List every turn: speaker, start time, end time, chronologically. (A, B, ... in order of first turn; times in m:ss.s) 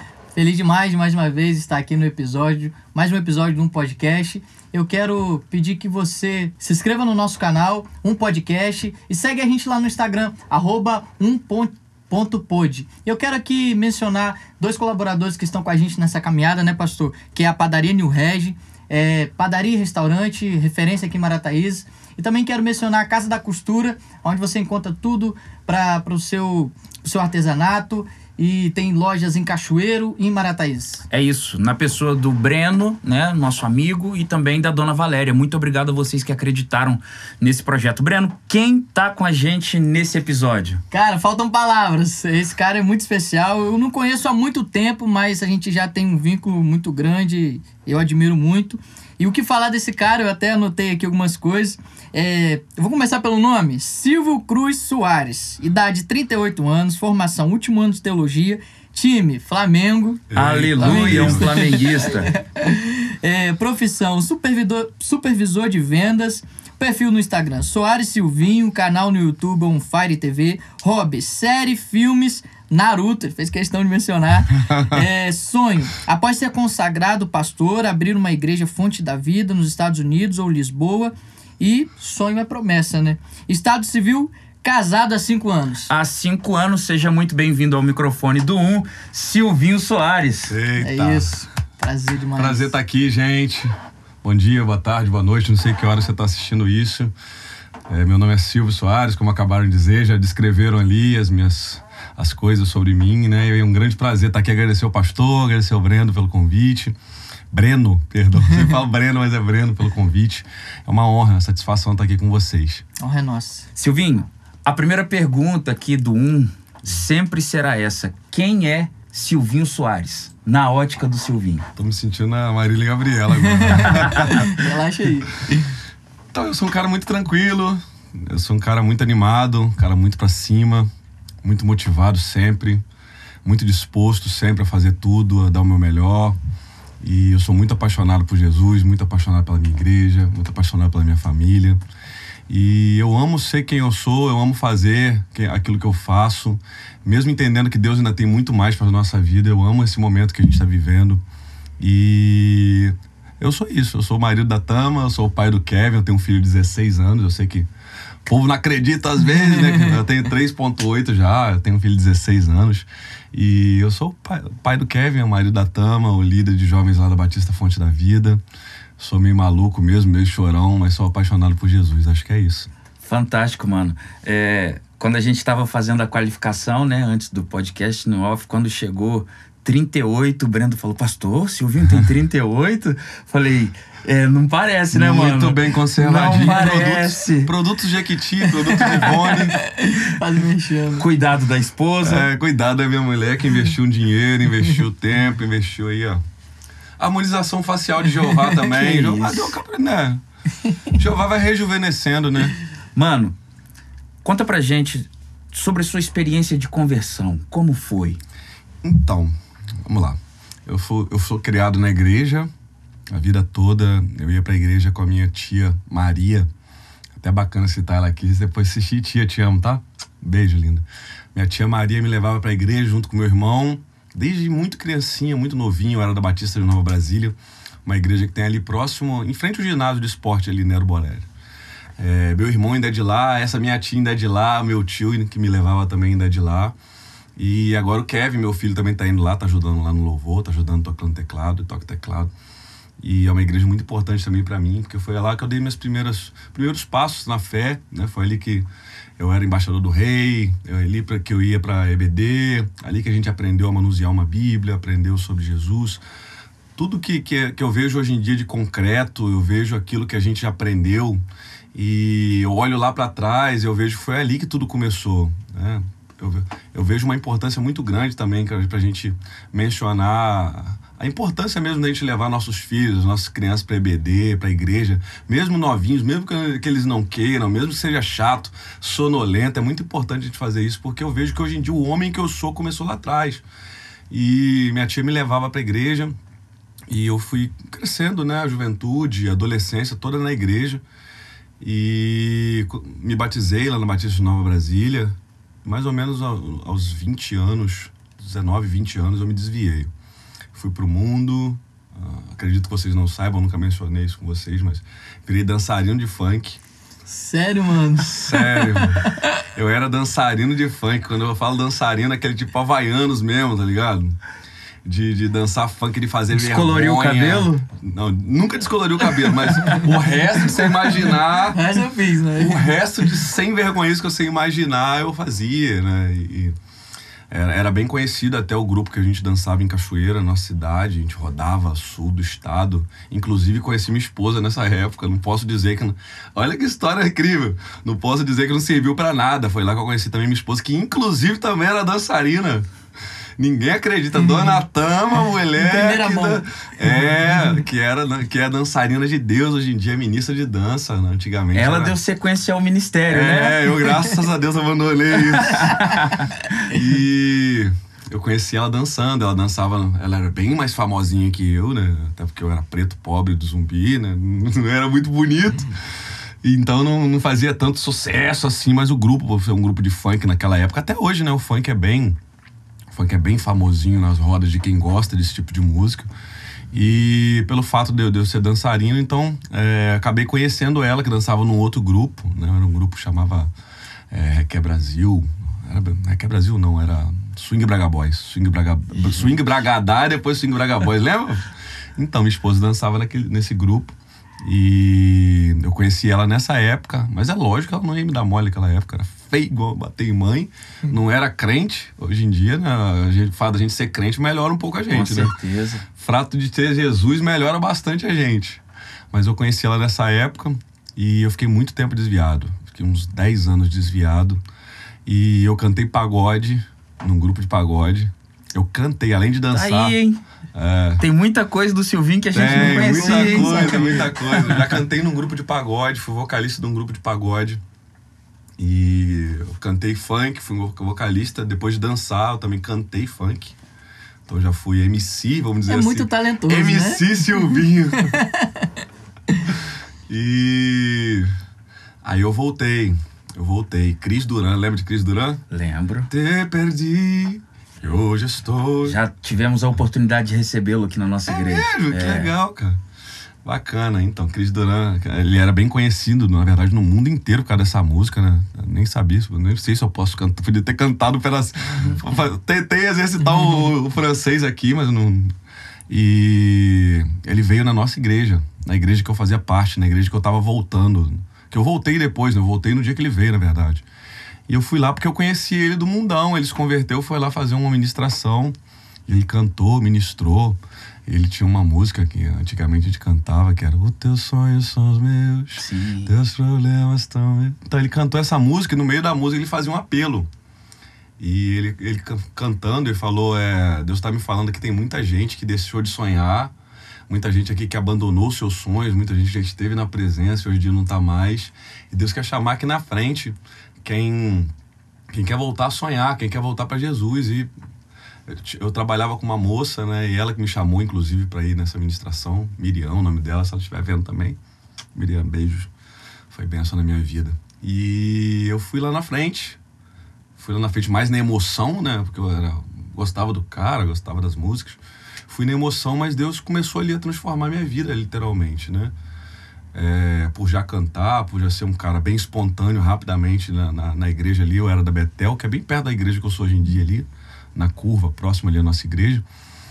0:00.3-0:31.0 A
0:31.1-0:40.8 B
0:40.9-1:00.2 A
1:00.3-1:01.8 C
1:00.4-1:02.3 B
1:00.8-1:25.9 A
1:14.5-1:15.0 C
1:25.9-1:30.6 B
1:30.5-1:31.3 C
1:30.8-1:32.7 A
1:32.4-1:33.7 C
1:34.2-1:37.1 C
1:37.9-1:47.0 C
1:47.5-1:52.8 C
1:53.0-1:53.7 A
1:53.8-2:01.7 B
2:01.8-2:04.5 C
2:03.7-2:05.6 A
2:06.3-2:10.9 C
2:11.4-2:12.8 C
2:13.4-2:16.4 C
2:17.0-2:21.8 C
2:22.5-2:31.2 C
2:31.8-2:37.7 C
2:38.2-2:48.4 C
2:49.0-2:52.7 C
2:53.0-3:07.5 B
3:01.8-3:02.1 C
3:04.9-3:09.6 C
3:09.2-3:11.0 A
3:11.0-3:12.3 B
3:12.0-3:16.2 C
3:17.0-3:20.2 C
3:18.6-3:19.6 B
3:20.9-3:22.5 C
3:23.0-3:23.3 B
3:24.2-3:28.2 B
3:28.8-3:29.3 C
3:29.8-3:32.5 C
3:33.1-3:36.5 C
3:37.2-3:51.3 C
3:52.0-3:56.7 C
3:57.4-4:02.3 C
4:03.0-4:08.7 C
4:09.2-4:16.0 C
4:16.8-4:21.2 C
4:21.7-4:43.4 C
4:44.1-4:46.2 C
4:46.9-4:50.8 C
4:51.6-4:59.9 C
5:00.5-5:06.6 C
5:07.1-5:09.2 A
5:08.0-5:14.2 C
5:14.8-5:21.6 C
5:16.3-5:17.6 B
5:21.5-5:22.7 A
5:22.4-5:26.5 C
5:27.3-5:42.7 C
5:43.4-5:52.0 C
5:45.6-5:46.4 A
5:51.5-5:53.8 B
5:53.1-5:56.0 C
5:55.3-5:56.3 B
5:56.7-6:05.7 C
6:06.4-6:12.2 C
6:12.9-6:16.1 C
6:16.7-6:23.5 C
6:24.1-6:45.3 C
6:44.9-6:45.9 B
6:46.0-6:54.4 C
6:55.0-7:00.0 C
6:59.5-7:00.2 B
7:00.5-7:01.0 C
7:01.0-7:04.8 B
7:02.3-7:07.6 C
7:02.5-7:04.1 A
7:08.6-7:13.6 C
7:14.2-7:18.1 C
7:15.7-7:18.7 A
7:20.1-7:21.3 C
7:22.0-7:25.4 C
7:25.5-7:26.1 B
7:26.1-7:29.0 C
7:28.8-7:32.3 B
7:31.3-7:32.8 C
7:33.4-7:45.3 C
7:45.9-7:53.8 C
7:54.5-8:10.3 C
8:05.6-8:06.1 B
8:11.2-8:16.5 C
8:17.1-8:24.5 C
8:25.1-8:27.5 C
8:28.2-8:34.4 C
8:34.9-8:35.7 C
8:36.3-8:39.6 C
8:40.4-8:48.9 C
8:49.7-8:59.2 C